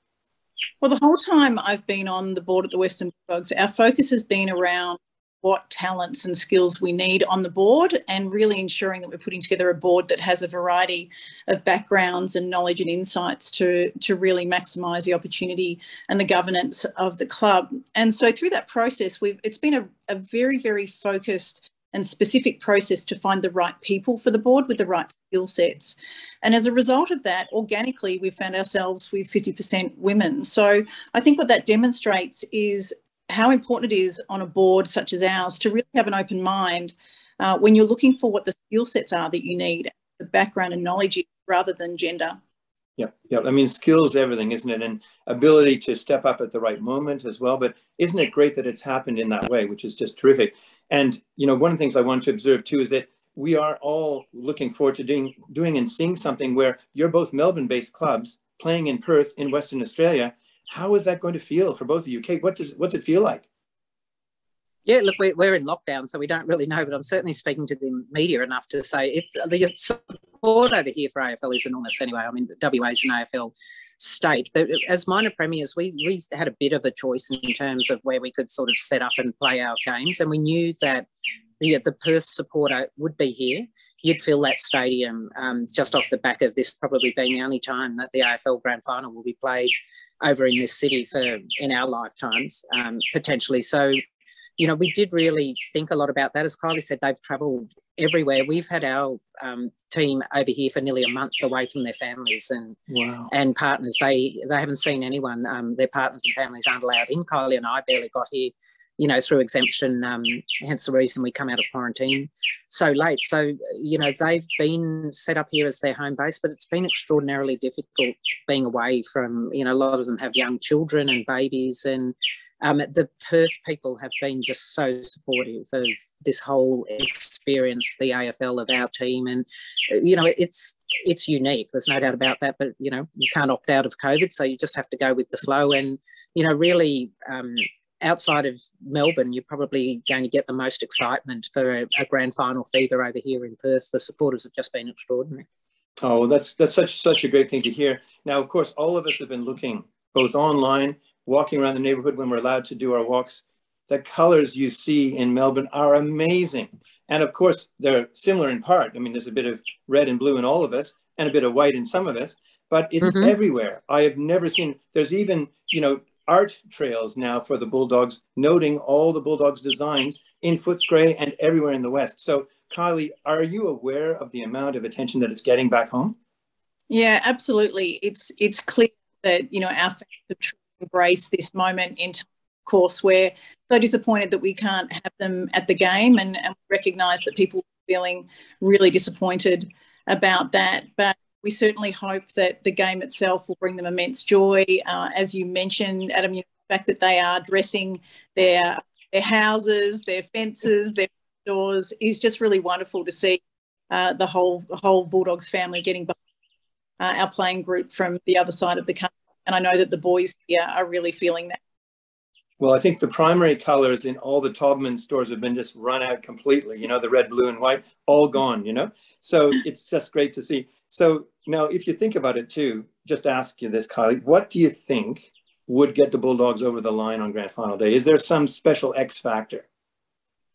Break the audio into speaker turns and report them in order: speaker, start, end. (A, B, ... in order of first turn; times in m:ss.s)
0:00.8-0:42.4 A
0:43.0-1:03.5 B
1:04.8-1:21.0 C
1:21.6-1:34.0 C
1:34.6-1:42.8 C
1:42.9-1:43.3 B
1:43.3-2:25.4 C
2:26.0-2:56.2 B
2:43.0-2:43.3 C
2:56.9-3:26.1 A
3:27.0-3:31.6 A
3:32.6-3:49.6 B